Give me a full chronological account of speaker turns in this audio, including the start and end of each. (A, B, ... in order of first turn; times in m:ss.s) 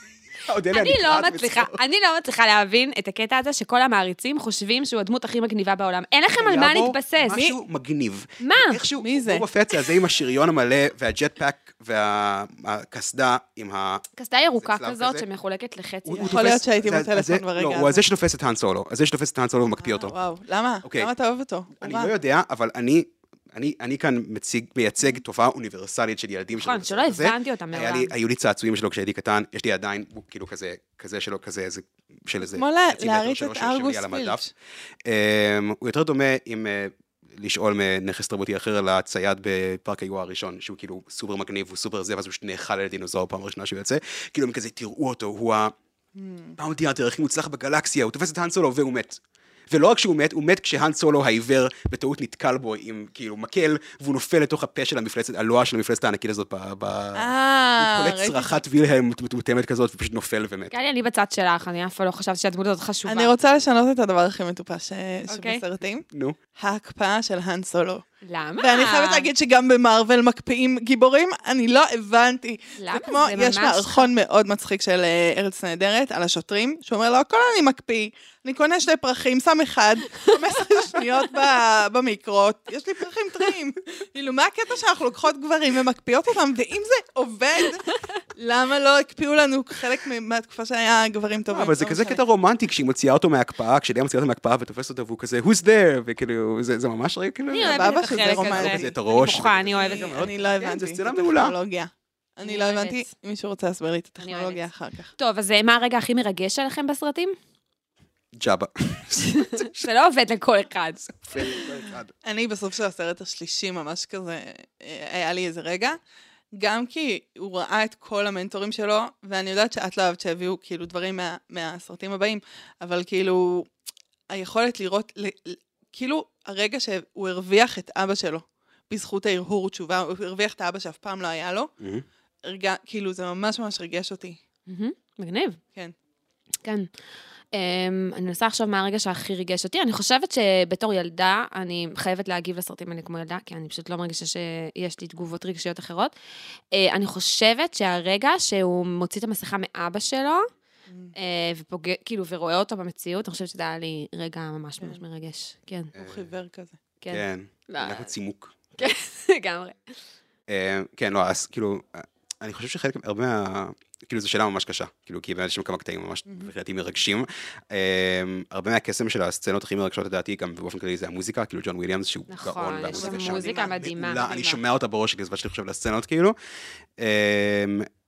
0:00.4-0:01.8 A
0:00.7-0:07.4 B
0:06.4-0:14.1 A
0:08.4-0:08.8 B
0:09.0-0:09.4 C
0:14.2-0:16.6 B
0:14.6-0:15.2 A
0:16.0-0:20.1 A
0:16.3-0:18.0 C
0:19.9-0:22.1 C
0:20.8-0:21.1 A
0:21.8-0:34.4 A
0:26.5-0:28.1 B
0:32.4-0:34.5 C
0:35.0-0:45.7 A
0:46.2-0:46.6 C
0:46.6-1:00.7 A
0:57.1-0:58.6 C
1:00.7-1:03.3 B
1:03.0-1:08.0 C
1:05.3-1:05.6 B
1:06.1-1:06.4 A
1:08.2-1:09.3 B
1:08.6-1:32.2 C
1:12.8-1:14.1 B
1:31.5-1:41.5 A
1:37.5-1:40.3 B
1:37.6-1:38.9 C
1:39.8-1:45.1 C
1:42.4-1:43.1 B
1:44.2-1:44.6 B
1:45.2-1:47.3 B
1:48.3-1:49.9 A
1:49.2-1:51.1 B
1:51.1-1:52.1 A
1:52.2-1:56.0 C
1:56.6-2:03.7 C
2:04.3-2:11.7 C
2:11.8-2:12.0 A
2:12.4-2:14.4 C
2:14.7-2:15.6 B
2:16.6-2:16.9 B
2:17.5-2:26.1 B
2:26.7-2:30.5 B
2:31.2-2:35.9 B
2:35.9-2:36.8 C
2:35.9-2:36.3 A
2:37.0-2:38.1 B
2:37.1-2:38.6 A
2:38.8-2:40.0 B
2:40.5-2:56.4 A
2:52.3-2:54.3 B
2:52.9-2:54.6 C
2:57.0-2:57.8 A